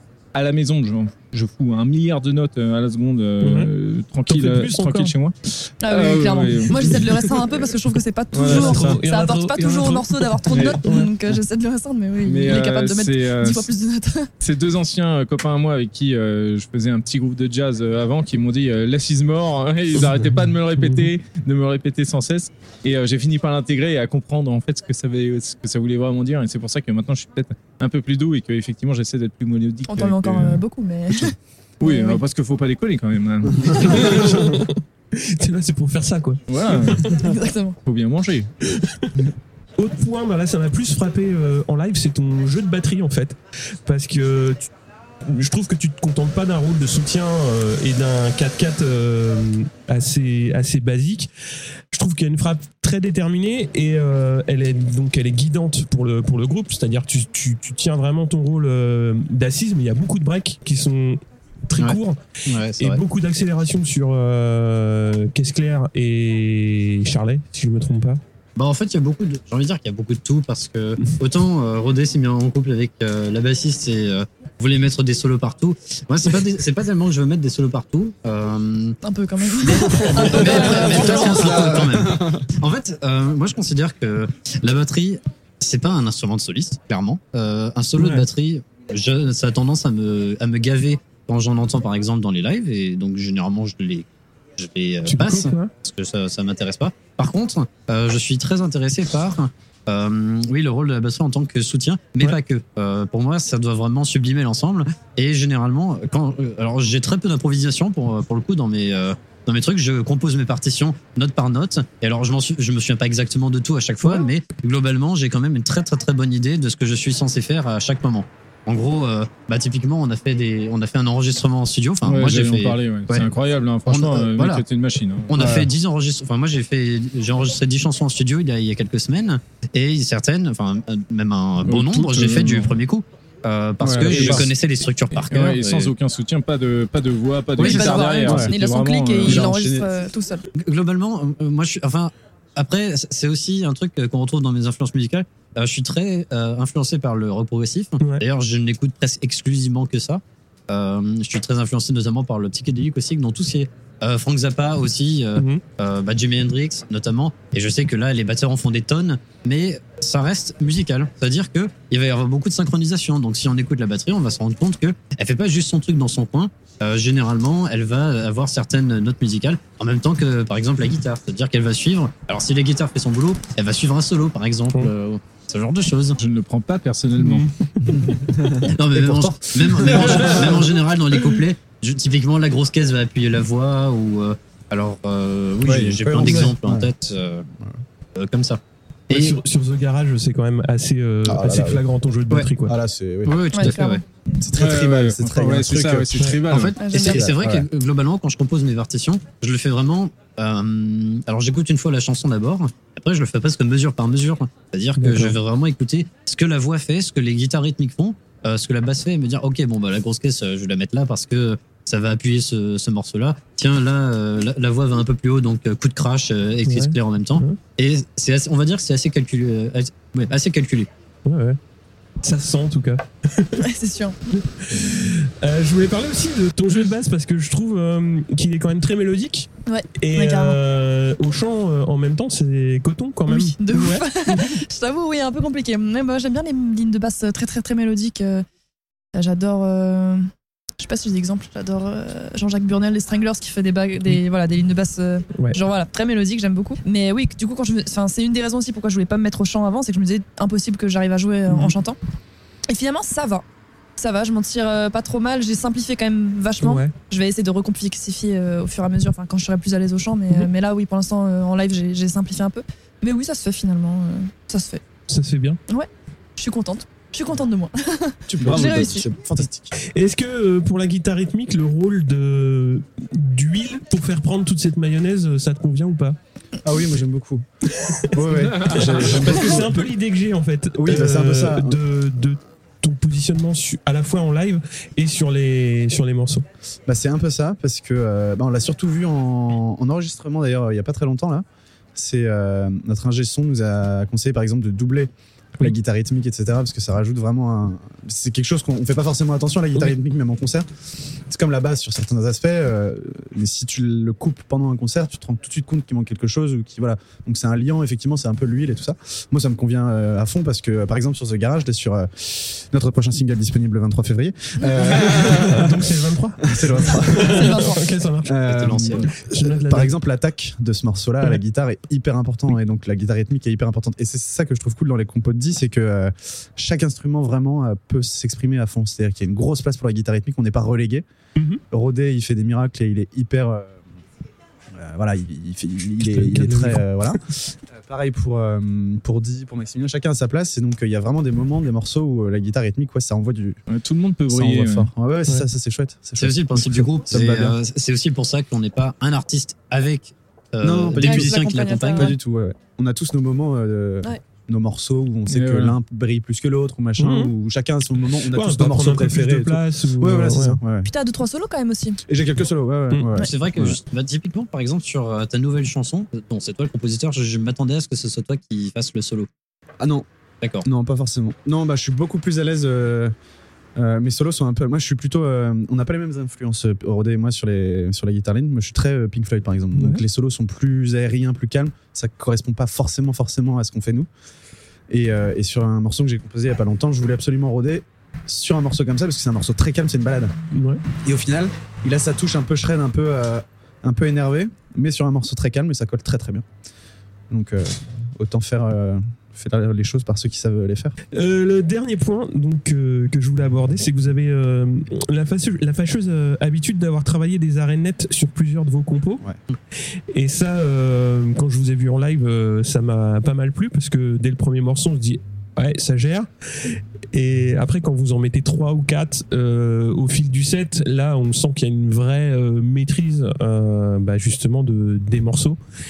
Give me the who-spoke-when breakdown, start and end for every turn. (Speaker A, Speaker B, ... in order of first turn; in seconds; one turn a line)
Speaker A: 0.3-7.0
Speaker B: 3.4-3.7
Speaker B: 4.3-5.1
Speaker C: 5.8-14.3
Speaker B: 6.8-7.2
Speaker A: 8.3-9.0
Speaker B: 8.4-11.1
Speaker A: 10.5-10.8
Speaker A: 12.2-13.7
Speaker A: 14.4-30.6
Speaker B: 20.8-21.1
Speaker C: 29.9-32.2
Speaker A: 31.8-34.6
Speaker B: 33.7-37.3
Speaker A: 36.5-37.1
Speaker C: 37.1-37.8
Speaker A: 37.9-38.5
Speaker B: 38.8-39.1
Speaker B: 39.8-44.7
Speaker B: 45.2-51.3
Speaker B: 51.9-62.2
Speaker D: 61.8-63.0
Speaker B: 62.8-68.2
Speaker D: 68.6-79.0
Speaker C: 79.0-81.6
Speaker D: 79.6-123.3
Speaker E: 79.9-82.5
Speaker B: 88.0-88.3
Speaker B: 95.0-95.7
Speaker A: 122.0-125.4
Speaker D: 123.9-124.6
Speaker D: 125.3-135.9
Speaker E: 125.4-125.7
Speaker A: 131.6-132.8
Speaker E: 133.8-134.5
Speaker A: 134.1-134.5
Speaker A: 135.1-139.5
Speaker C: 137.6-140.4
Speaker D: 137.6-138.0
Speaker E: 138.3-138.5
Speaker E: 139.2-139.9
Speaker D: 140.6-176.2
Speaker B: 155.4-155.6
Speaker A: 176.2-177.4
Speaker B: 177.2-178.2
Speaker E: 177.9-180.8
Speaker D: 178.7-187.4
Speaker E: 185.6-186.9
Speaker B: 186.2-186.5
Speaker D: 188.2-189.4
Speaker B: 189.1-192.8
Speaker E: 191.2-191.9
Speaker E: 192.7-193.5
Speaker D: 193.2-194.0
Speaker C: 193.5-194.0
Speaker E: 194.4-196.2
Speaker A: 194.6-196.8
Speaker B: 196.2-196.4
Speaker D: 196.5-220.9
Speaker C: 196.8-197.2
Speaker E: 197.0-197.7
Speaker B: 205.0-205.4
Speaker B: 216.7-217.6
Speaker B: 221.2-221.6
Speaker B: 222.2-223.6
Speaker C: 223.6-224.2
Speaker B: 224.3-234.6
Speaker C: 229.7-230.6
Speaker C: 233.3-238.4
Speaker C: 239.2-240.3
Speaker C: 240.8-252.0
Speaker B: 251.5-251.8
Speaker C: 252.7-253.4
Speaker C: 254.0-264.8
Speaker B: 256.6-256.9
Speaker B: 265.1-265.6
Speaker C: 265.7-269.1
Speaker E: 268.3-269.7
Speaker B: 268.4-268.7
Speaker B: 269.9-276.2
Speaker E: 276.6-277.4
Speaker B: 277.8-286.4
Speaker E: 278.1-279.9
Speaker A: 278.5-279.6
Speaker E: 280.8-281.8
Speaker E: 286.9-300.7
Speaker E: 301.3-315.9
Speaker B: 314.9-319.9
Speaker E: 316.5-317.7
Speaker C: 317.3-317.9
Speaker E: 318.2-331.1
Speaker D: 318.4-319.1
Speaker B: 331.4-331.6
Speaker E: 331.7-333.8
Speaker E: 334.7-343.6
Speaker B: 336.0-337.1
Speaker A: 343.7-344.9
Speaker E: 344.3-347.6
Speaker D: 346.2-352.1
Speaker E: 350.6-360.9
Speaker C: 351.0-352.1
Speaker A: 355.3-355.8
Speaker B: 357.0-357.3
Speaker B: 358.3-360.6
Speaker C: 360.9-362.0
Speaker E: 362.1-363.8
Speaker D: 363.2-369.3
Speaker E: 369.8-370.1
Speaker E: 370.6-373.1
Speaker E: 373.8-384.1
Speaker B: 379.8-380.0
Speaker E: 384.9-390.3
Speaker B: 390.5-390.8
Speaker E: 391.0-396.5
Speaker E: 397.3-401.0
Speaker B: 401.1-409.2
Speaker B: 410.1-425.6